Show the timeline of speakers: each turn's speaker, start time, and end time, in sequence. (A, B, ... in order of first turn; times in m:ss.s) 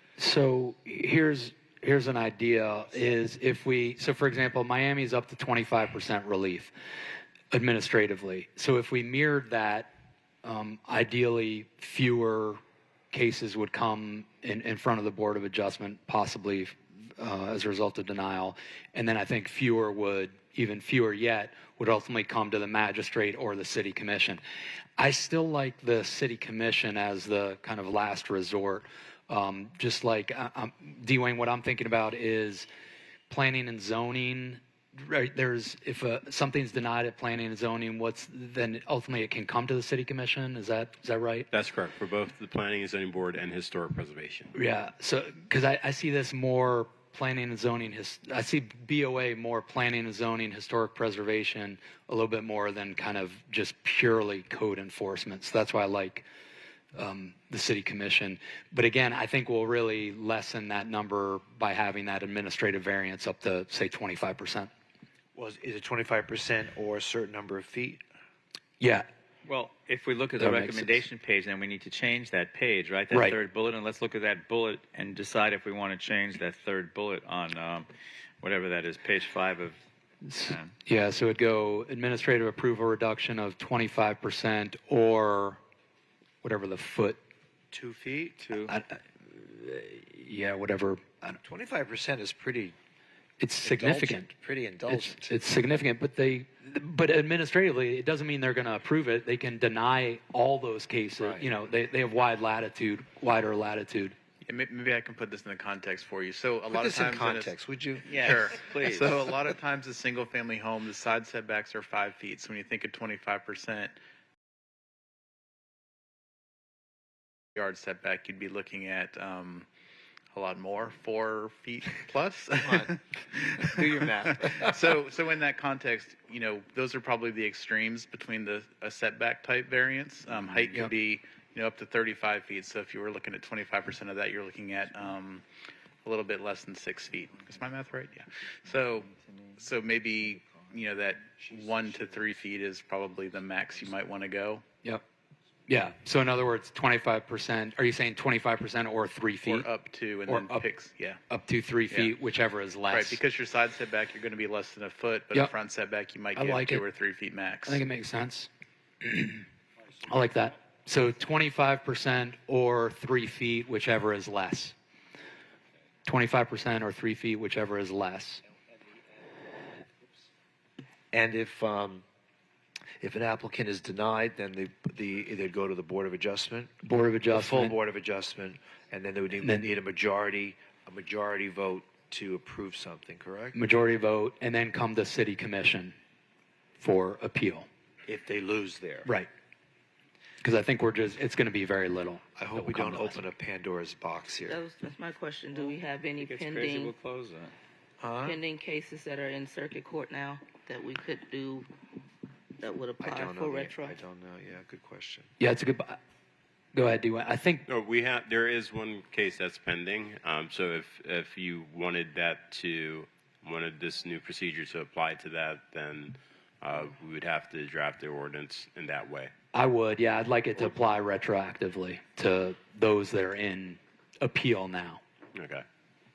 0:00.2-0:06.7 A
0:07.5-0:09.9 A
0:10.4-0:12.6 A
0:13.1-0:24.4 A
0:25.0-0:32.7 A
0:33.3-0:41.5 A
0:41.5-0:44.5 B
0:44.5-0:56.3 A
0:57.0-1:04.7 A
1:05.4-1:08.0 C
1:08.8-1:09.1 A
1:09.4-1:17.9 D
1:10.4-1:11.0 A
1:13.1-1:13.4 A
1:18.4-1:19.8 D
1:20.2-1:25.6 A
1:20.4-1:20.7 D
1:26.4-1:27.2 A
1:27.7-1:28.4 C
1:28.4-1:28.8 D
1:28.7-1:31.4 A
1:31.4-1:32.8 C
1:33.4-1:34.3 A
1:33.6-1:35.4 C
1:34.9-1:44.2 A
1:41.2-1:41.5 C
1:44.5-1:54.0 E
1:46.7-1:48.2 C
1:48.1-1:49.3 D
1:57.6-1:59.7 E
2:00.3-2:02.9 E
2:02.6-2:03.0 C
2:03.6-2:04.9 C
2:03.7-2:15.4 E
2:16.0-2:24.6 E
2:21.4-2:22.2 C
2:25.7-2:29.7 A
2:29.4-2:31.2 E
2:30.3-2:30.7 A
2:31.3-2:33.2 A
2:32.9-2:37.8 E
2:36.3-2:36.8 A
2:37.7-2:38.5 A
2:39.0-2:39.4 A
2:40.0-2:44.8 A
2:46.1-2:48.4 A
2:51.1-2:52.0 C
2:53.0-2:56.7 C
2:56.8-2:57.8 A
2:57.3-3:03.6 C
3:03.5-3:06.0 A
3:06.8-3:07.7 A
3:08.1-3:09.1 C
3:09.0-3:09.3 A
3:10.4-3:13.2 A
3:12.4-3:14.6 C
3:14.5-3:17.0 F
3:16.2-3:17.6 D
3:18.0-3:18.4 C
3:18.2-3:21.7 F
3:22.6-3:24.0 F
3:23.0-3:25.3 C
3:25.4-3:26.0 A
3:26.7-3:27.7 A
3:27.7-3:39.3 B
3:39.5-3:45.0 A
3:45.3-3:45.6 B